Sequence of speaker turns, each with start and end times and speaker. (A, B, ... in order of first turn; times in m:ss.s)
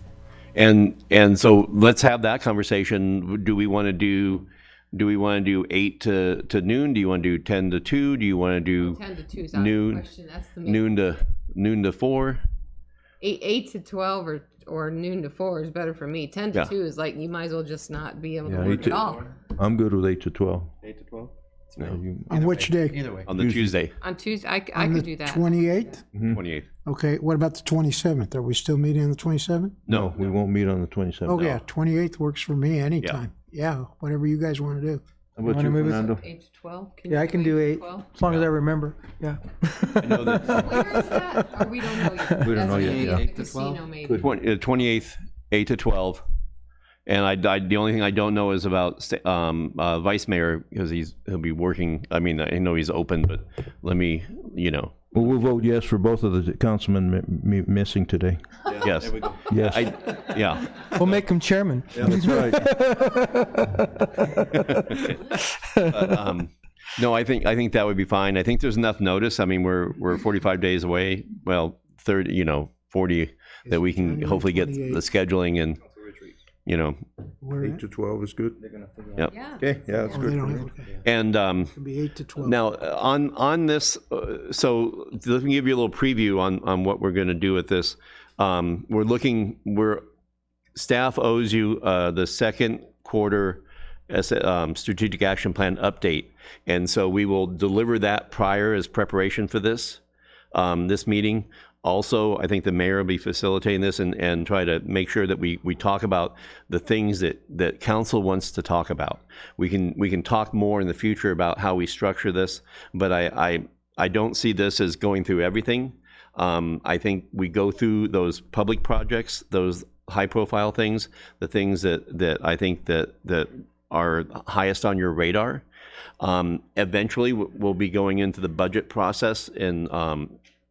0:00.6-0:09.0 A
0:08.8-0:10.9 B
0:09.5-0:10.1 A
0:10.6-0:12.4 A
0:13.2-0:19.3 B
0:18.5-0:20.7 C
0:18.7-0:19.2 D
0:20.8-0:21.3 D
0:21.8-0:22.5 C
0:22.3-0:23.1 E
0:22.4-0:23.3 D
0:23.2-0:24.0 A
0:23.4-0:23.7 C
0:24.0-0:25.8 B
0:24.7-0:26.0 E
0:26.1-0:26.4 C
0:26.3-0:26.7 A
0:26.9-0:29.8 E
0:29.9-0:31.6 C
0:31.3-0:35.0 E
0:35.4-0:36.2 C
0:35.4-0:36.1 F
0:35.9-0:38.1 B
0:37.1-0:41.0 F
0:40.0-0:40.8 A
0:40.5-0:44.3 B
0:42.3-0:42.7 F
0:42.4-0:43.2 C
0:42.7-0:43.2 A
0:42.7-0:43.8 D
0:44.1-0:46.2 A
0:47.1-0:55.2 A
0:55.1-0:58.9 C
0:58.7-1:00.8 A
0:59.4-0:59.9 C
1:00.8-1:06.2 F
1:01.9-1:02.8 C
1:04.6-1:05.1 A
1:05.9-1:15.8 A
1:13.7-1:15.0 E
1:16.7-1:17.0 A
1:17.4-1:17.8 E
1:17.6-1:18.6 C
1:18.7-1:19.3 D
1:19.3-1:19.6 B
1:19.6-1:20.7 C
1:20.1-1:21.0 E
1:21.0-1:21.8 A
1:21.8-1:22.6 E
1:22.4-1:30.0 A
1:30.8-1:40.0 A
1:40.5-2:05.6 A
2:06.2-2:10.4 A